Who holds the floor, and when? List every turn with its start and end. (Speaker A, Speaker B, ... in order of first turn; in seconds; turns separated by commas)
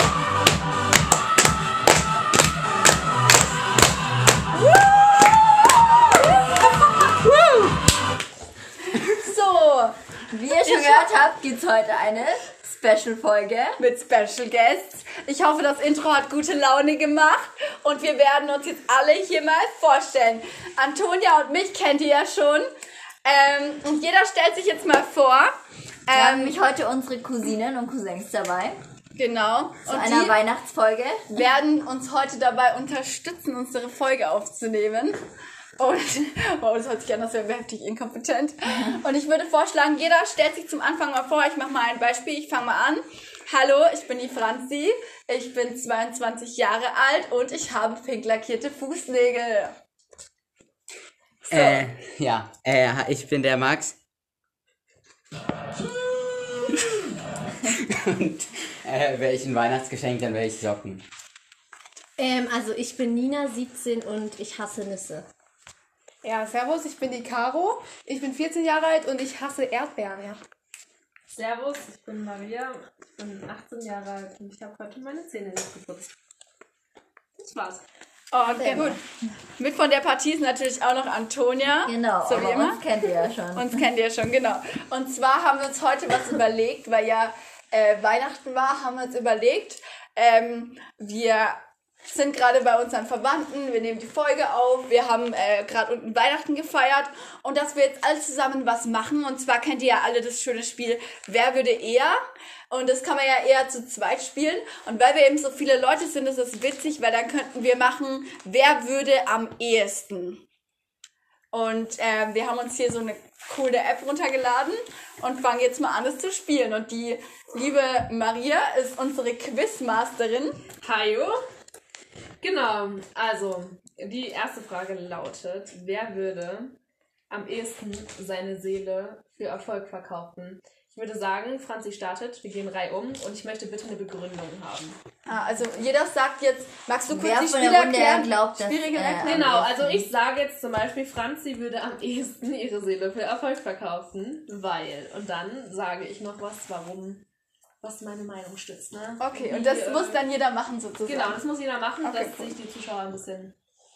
Speaker A: 4.5-6.4, Speaker A: 7.0-7.8, Speaker A: 9.0-10.0, Speaker B: 10.3-13.8, Speaker A: 10.5-11.2, Speaker A: 13.8-22.7, Speaker A: 23.2-25.5, Speaker A: 26.1-26.6, Speaker B: 26.1-28.8, Speaker A: 29.1-30.4, Speaker B: 29.9-31.4, Speaker A: 31.3-35.2, Speaker A: 35.8-49.7, Speaker A: 51.5-51.8, Speaker C: 51.5-54.0, Speaker C: 57.6-61.0, Speaker D: 62.2-65.3, Speaker E: 66.2-70.4, Speaker F: 71.3-76.1, Speaker F: 77.4-77.8, Speaker A: 78.3-79.0, Speaker B: 78.4-79.0, Speaker A: 79.6-82.8, Speaker B: 81.8-83.9, Speaker A: 83.5-102.2, Speaker A: 102.7-110.4, Speaker A: 111.5-120.6, Speaker F: 120.8-121.4, Speaker F: 122.4-126.7, Speaker F: 127.3-135.0, Speaker A: 135.2-139.6, Speaker B: 137.1-140.1, Speaker F: 139.2-147.2, Speaker F: 147.8-150.2, Speaker A: 149.2-151.4, Speaker F: 151.0-153.5, Speaker A: 152.0-152.5